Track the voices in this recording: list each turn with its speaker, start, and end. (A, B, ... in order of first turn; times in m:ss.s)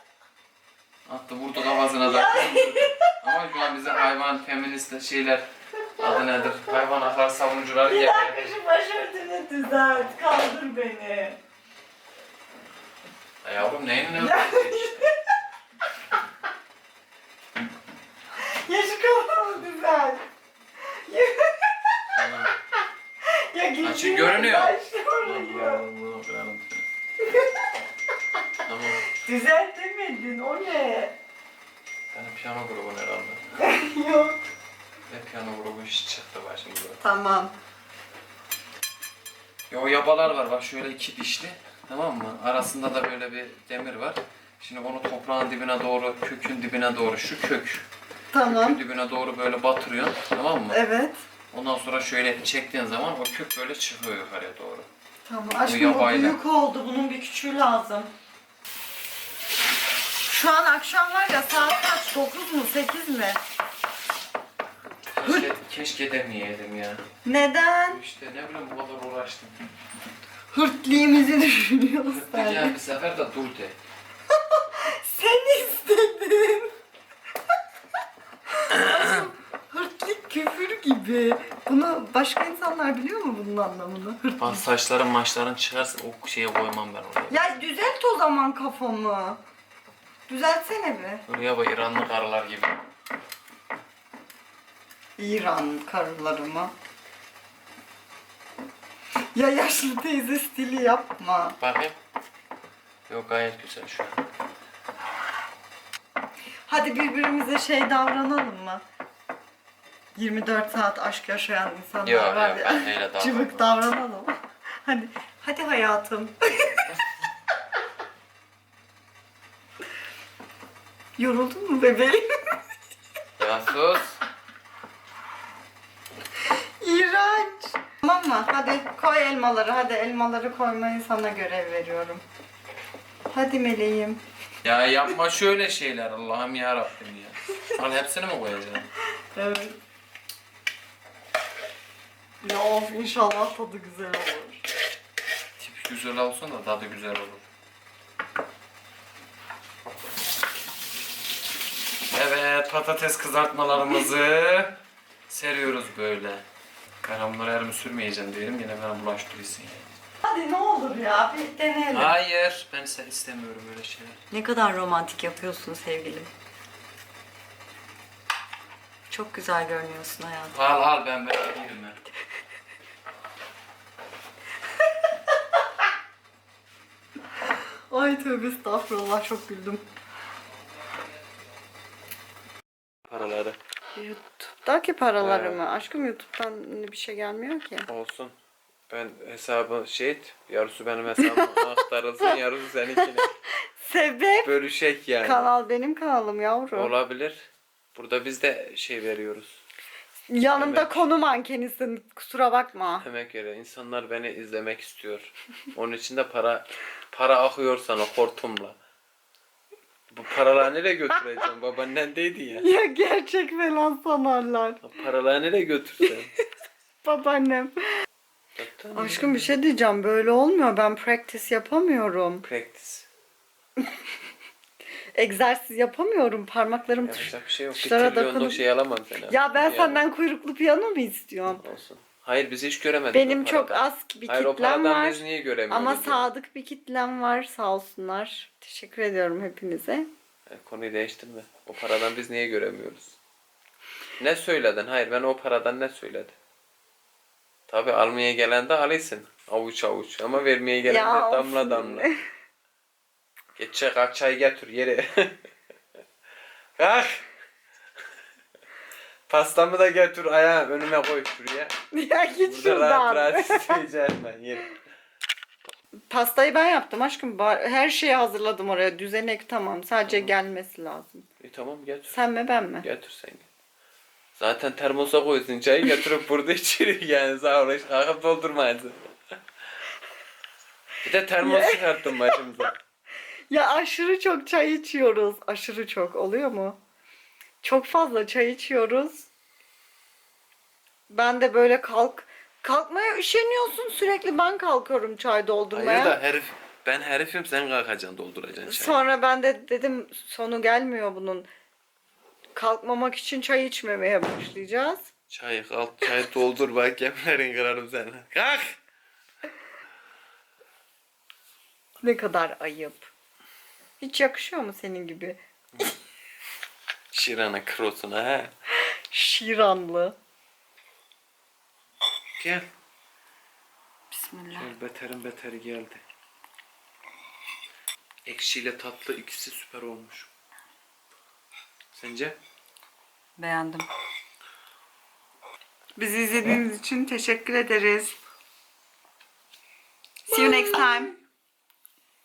0:01.1-0:08.5 A
0:02.0-0:03.0 B
0:07.9-0:11.4 B
0:13.4-0:15.1 A
0:14.1-0:15.1 B
0:18.5-0:20.2 B
0:21.1-0:22.0 B
0:22.2-0:22.5 A
0:23.3-0:25.8 B
0:23.8-0:26.9 A
0:28.6-0:29.0 A
0:29.2-0:31.2 B
0:32.1-0:33.6 A
0:33.6-0:34.4 B
0:35.1-0:37.0 A
0:37.0-0:37.5 B
0:39.7-0:47.9 A
0:48.3-0:48.8 B
0:48.4-0:50.8 A
0:50.7-0:51.2 B
0:51.5-0:54.9 A
0:55.3-0:58.1 B
0:55.6-0:56.4 A
1:00.3-1:03.4 B
1:05.2-1:07.0 A
1:05.2-1:05.5 B
1:07.2-1:08.0 B
1:07.9-1:09.6 A
1:10.5-1:12.8 B
1:12.1-1:13.8 A
1:14.5-1:16.7 B
1:18.6-1:24.7 B
1:18.7-1:19.2 A
1:24.3-1:27.4 A
1:27.3-1:29.4 B
1:30.3-1:31.2 B
1:31.3-1:32.8 A
1:35.2-1:36.7 B
1:39.3-1:41.6 B
1:41.6-1:42.0 A
1:43.1-1:44.2 A
1:46.7-1:48.8 B
1:50.2-1:56.8 B
1:52.0-1:53.7 A
2:01.2-2:02.3 B
2:03.4-2:04.2 A
2:06.8-2:12.2 B
2:13.3-2:14.2 B
2:14.6-2:18.9 A
2:19.4-2:19.8 B
2:22.4-2:24.6 B
2:25.6-2:27.4 A
2:32.1-2:36.4 A
2:37.0-2:39.9 A
2:40.2-2:42.2 B
2:41.9-2:44.2 A
2:44.3-2:46.3 B
2:49.1-2:50.6 B
2:50.5-2:52.0 A
2:57.9-2:59.8 B
3:03.1-3:03.6 A
3:04.0-3:07.9 B
3:05.2-3:05.7 A
3:07.9-3:08.3 A
3:08.9-3:13.3 A
3:11.2-3:11.6 B
3:13.8-3:14.5 B
3:14.4-3:15.5 A
3:15.2-3:16.9 B
3:16.7-3:19.6 A
3:20.3-3:23.0 B
3:20.6-3:21.1 A
3:23.0-3:28.8 A
3:30.1-3:32.7 A
3:32.6-3:34.8 B
3:34.8-3:36.3 A
3:37.0-3:37.8 B
3:38.6-3:39.4 A
3:38.9-3:42.4 B
3:42.4-3:43.1 A
3:45.2-3:48.6 B
3:47.0-3:50.0 A
3:49.3-3:51.6 B
3:51.5-3:56.3 A
3:53.1-4:00.1 B
4:00.5-4:03.2 A
4:04.2-4:06.4 A
4:07.7-4:12.2 A
4:10.8-4:12.2 B
4:13.6-4:15.4 A
4:16.8-4:17.2 A
4:19.3-4:21.7 A
4:21.9-4:23.8 B
4:22.4-4:24.8 A
4:26.1-4:31.2 B
4:30.0-4:30.3 A
4:31.4-4:32.2 A
4:32.1-4:32.9 B
4:32.8-4:33.5 A
4:34.4-4:39.0 A
4:41.0-4:42.8 A
4:41.4-4:41.8 B
4:43.5-4:46.8 B
4:47.6-4:49.3 B
4:51.1-4:56.2 B
4:55.7-4:59.1 A
4:58.6-5:01.5 B
5:02.6-5:05.1 B
5:05.3-5:08.8 A
5:12.0-5:13.1 B
5:14.0-5:15.4 B
5:17.1-5:18.5 A
5:19.1-5:20.2 B
5:22.4-5:22.6 A
5:24.1-5:24.7 B
5:24.6-5:26.0 A
5:28.3-5:30.3 A
5:31.9-5:32.4 A
5:33.4-5:33.9 B
5:36.0-5:38.2 B
5:40.3-5:41.2 B